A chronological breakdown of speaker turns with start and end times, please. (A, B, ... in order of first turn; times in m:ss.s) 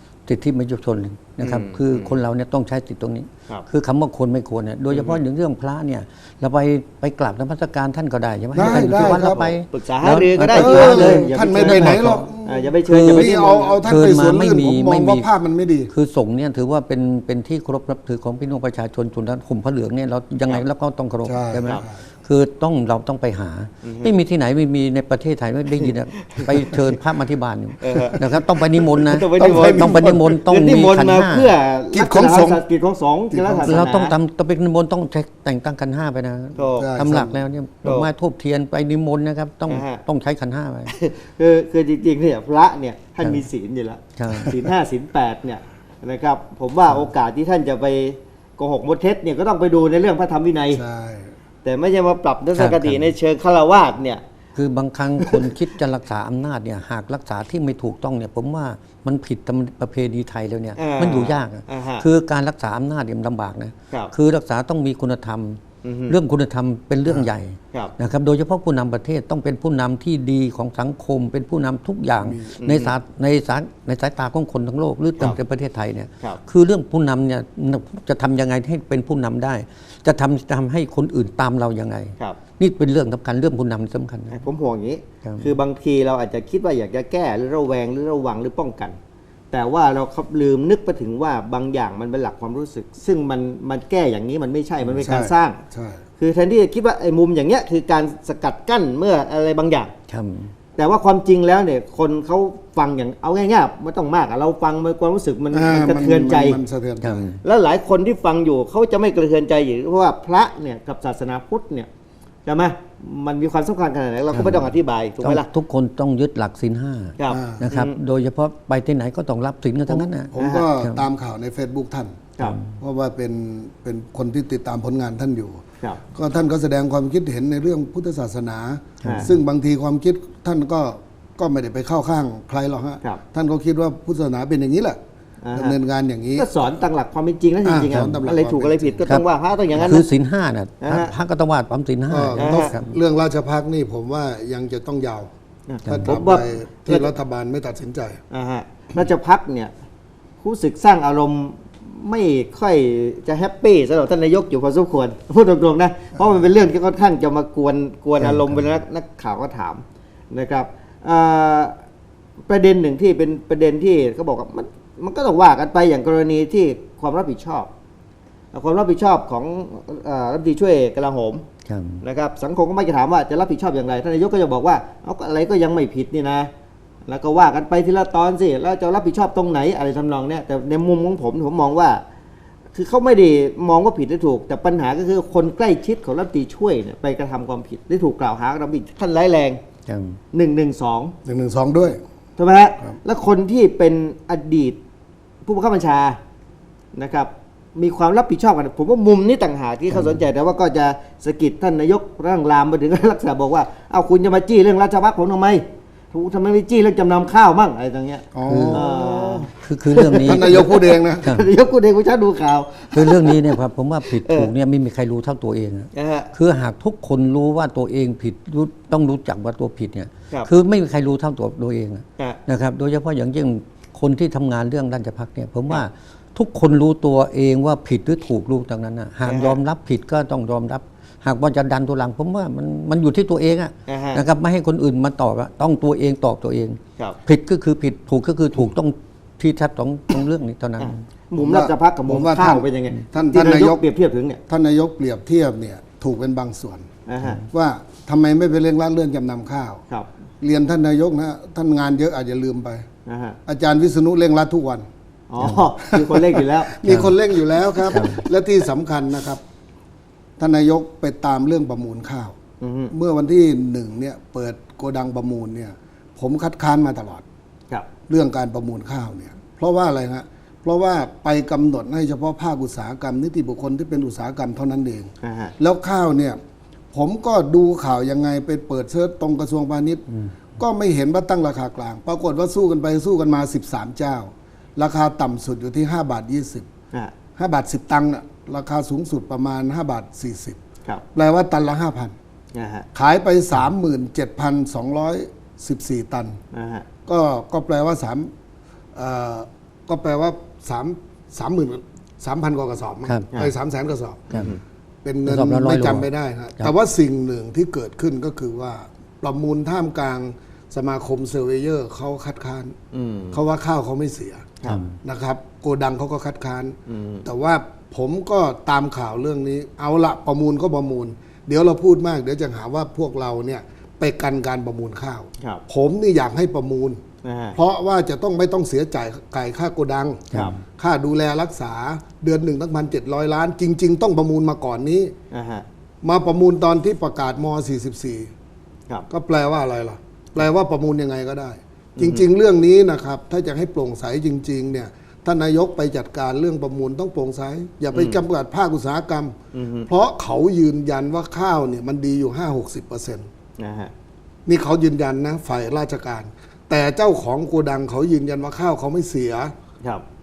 0:00.2-0:12.3 A
0:01.4-0:02.1 B
0:04.9-0:05.2 B
0:08.5-0:09.4 C
0:08.6-0:13.8 B
0:10.5-0:15.9 C
0:12.9-0:13.3 A
0:13.8-0:15.3 A
0:15.9-0:31.5 A
0:21.2-0:22.0 C
0:23.8-0:24.1 B
0:26.2-0:26.8 B
0:27.8-0:34.1 B
0:29.4-0:30.2 C
0:31.9-0:32.6 C
0:33.3-0:33.9 C
0:33.6-0:40.9 A
0:36.6-0:36.9 B
0:36.8-0:37.4 C
0:37.8-0:38.1 B
0:39.7-0:40.0 B
0:40.9-0:50.8 B
0:44.2-0:44.6 A
0:50.7-0:51.3 C
0:51.6-0:54.2 B
0:52.6-0:53.1 A
0:54.6-1:24.4 A
1:00.8-1:02.0 B
1:05.8-1:06.1 B
1:12.2-1:12.5 C
1:12.6-1:12.9 B
1:24.3-1:29.0 B
1:25.2-1:25.5 A
1:29.5-1:35.6 B
1:35.0-1:36.0 C
1:36.2-1:39.9 B
1:40.1-1:40.5 A
1:40.8-1:46.6 B
1:45.5-1:47.3 C
1:47.0-1:47.4 A
1:47.4-1:51.9 B
1:52.4-1:55.5 B
1:54.3-1:54.7 A
1:55.2-2:01.0 A
1:57.2-1:58.0 B
1:57.3-1:57.6 C
1:59.9-2:05.6 C
2:00.4-2:00.7 B
2:02.4-2:02.8 A
2:06.1-2:15.0 C
2:09.0-2:09.4 A
2:09.0-2:09.3 B
2:15.4-2:15.8 B
2:15.5-2:16.5 C
2:16.4-2:20.1 B
2:17.6-2:19.0 C
2:17.9-2:18.2 A
2:19.1-2:22.9 A
2:20.8-2:21.1 B
2:22.1-2:25.3 C
2:22.4-2:22.7 B
2:25.7-2:27.1 B
2:25.8-2:26.1 A
2:25.9-2:28.2 C
2:28.3-2:29.7 B
2:30.4-2:41.8 B
2:38.2-2:38.6 A
2:42.5-2:47.7 B
2:48.5-2:51.4 B
2:51.6-2:52.0 A
2:52.0-2:56.5 B
2:57.1-3:02.0 B
3:02.7-3:09.6 B
3:09.8-3:10.2 A
3:10.3-3:11.1 B
3:11.2-3:12.0 C
3:12.4-3:14.8 B
3:15.4-3:16.2 B
3:16.9-3:34.5 B
3:19.9-3:20.2 A
3:28.3-3:29.5 C
3:28.5-3:28.8 A
3:29.5-3:31.5 A
3:30.2-3:31.3 C
3:32.9-4:01.0 A
3:35.9-3:36.3 B
3:49.2-3:49.6 B
3:53.9-3:54.2 B
4:00.8-4:04.4 B
4:01.4-4:03.8 C
4:04.5-4:06.9 C
4:07.1-4:07.4 B
4:07.5-4:09.8 C
4:10.4-4:12.8 C
4:13.0-4:13.4 B
4:13.5-4:14.9 C
4:15.3-4:16.8 B
4:15.4-4:15.7 A
4:15.9-4:19.4 C
4:16.8-4:17.1 A
4:17.8-4:18.2 A
4:20.4-4:22.4 C
4:22.6-4:22.9 B
4:22.9-4:27.2 C
4:28.1-4:36.4 C
4:35.2-4:35.5 B
4:36.9-4:40.0 C
4:40.6-4:46.7 C
4:47.4-4:50.6 C
4:51.1-4:52.2 C
4:52.5-4:52.9 B
4:52.9-4:56.4 C
4:56.5-4:56.8 B
4:57.0-4:58.3 C
4:58.9-5:04.5 C
5:04.3-5:04.6 B
5:05.0-5:12.7 C
5:05.2-5:06.1 A
5:12.9-5:13.4 B
5:13.3-5:27.0 C
5:14.6-5:15.0 A
5:16.9-5:17.2 B
5:27.2-5:27.6 B
5:27.6-5:35.1 C
5:30.3-5:30.6 B
5:30.3-5:30.6 A
5:35.3-5:35.6 B
5:36.0-5:38.3 C
5:39.1-5:49.4 C
5:42.0-5:42.2 B
5:47.9-5:48.2 B
5:49.5-5:49.9 B
5:49.9-5:53.2 C
5:53.6-5:53.9 B
5:54.4-5:59.5 C